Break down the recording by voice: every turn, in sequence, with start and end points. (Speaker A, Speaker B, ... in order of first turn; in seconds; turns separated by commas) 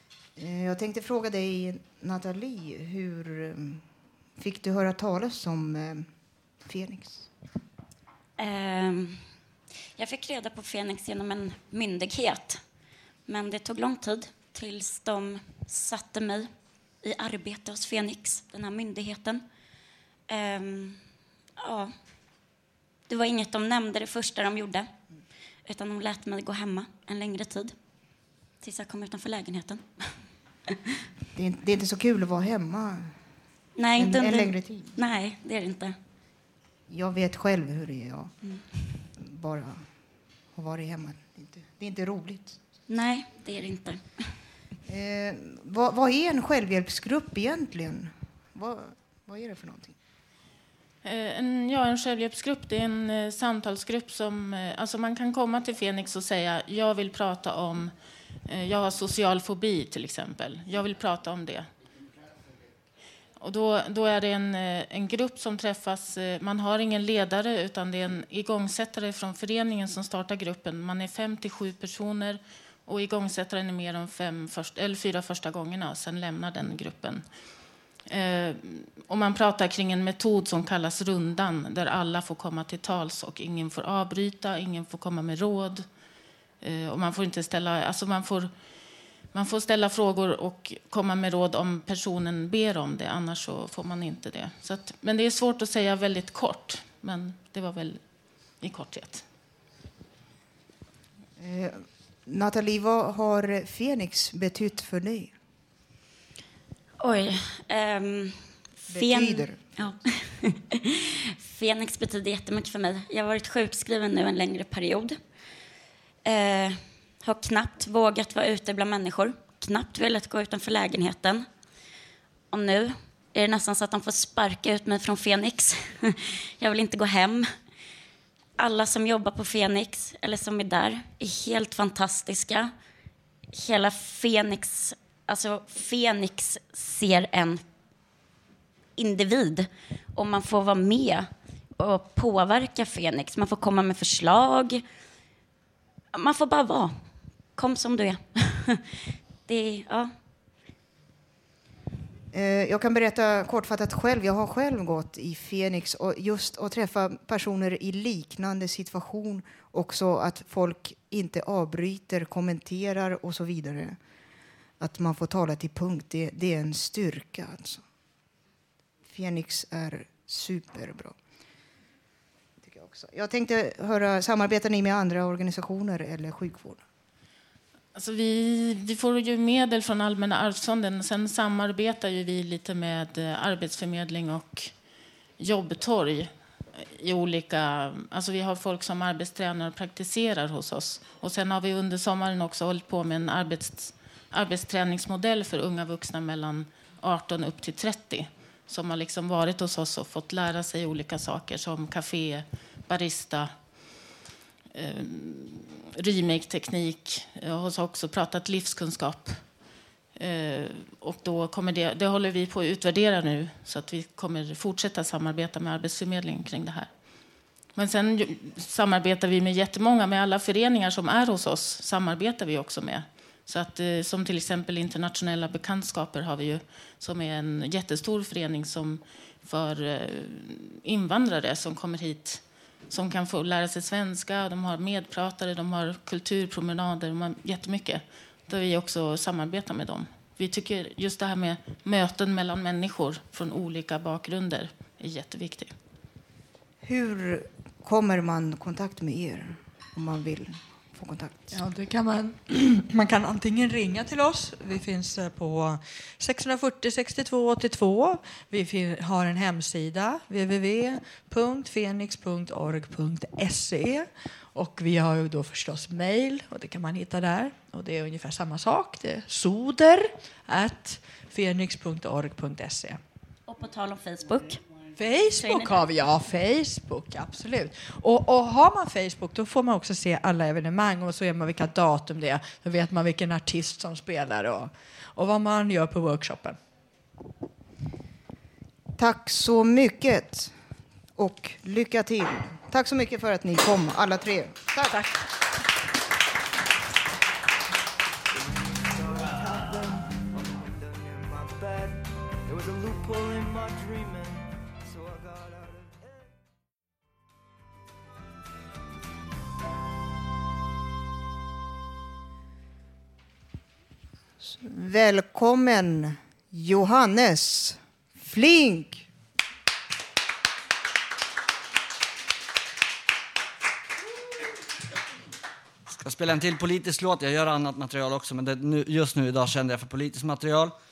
Speaker A: 0.4-3.9, Speaker A: 4.4-6.1, Speaker A: 6.6-7.3, Speaker B: 8.4-9.2, Speaker B: 10.0-12.6, Speaker B: 13.3-16.5, Speaker B: 17.0-19.4, Speaker B: 20.3-21.0, Speaker B: 21.6-21.9, Speaker B: 23.1-24.9, Speaker B: 25.7-27.8, Speaker B: 28.6-30.2, Speaker A: 31.4-33.1, Speaker B: 33.8-36.0, Speaker A: 34.0-34.9, Speaker A: 36.9-38.3, Speaker A: 39.2-39.8, Speaker A: 40.5-42.6, Speaker B: 42.9-44.2, Speaker A: 44.9-50.0, Speaker C: 51.0-57.9, Speaker C: 58.5-61.7, Speaker C: 63.4-77.3, Speaker C: 78.1-85.9, Speaker C: 86.6-88.6, Speaker C: 89.3-99.2, Speaker A: 101.4-105.3, Speaker B: 107.0-115.2, Speaker A: 108.9-109.6, Speaker B: 116.2-121.5, Speaker B: 122.5-127.5, Speaker B: 128.6-132.7, Speaker B: 133.5-137.6, Speaker B: 139.0-144.8, Speaker B: 146.1-150.1, Speaker A: 152.3-164.0, Speaker A: 164.8-167.8, Speaker A: 169.1-171.2, Speaker A: 172.6-176.8, Speaker C: 177.9-184.8, Speaker C: 185.4-204.1, Speaker C: 204.7-217.0, Speaker C: 217.7-245.8, Speaker A: 246.8-251.5, Speaker D: 251.5-273.0, Speaker B: 273.5-274.6, Speaker D: 275.0-286.6, Speaker B: 275.2-275.9, Speaker A: 289.0-290.5, Speaker A: 291.2-295.0, Speaker E: 298.4-306.3, Speaker A: 314.4-319.1, Speaker F: 325.9-330.7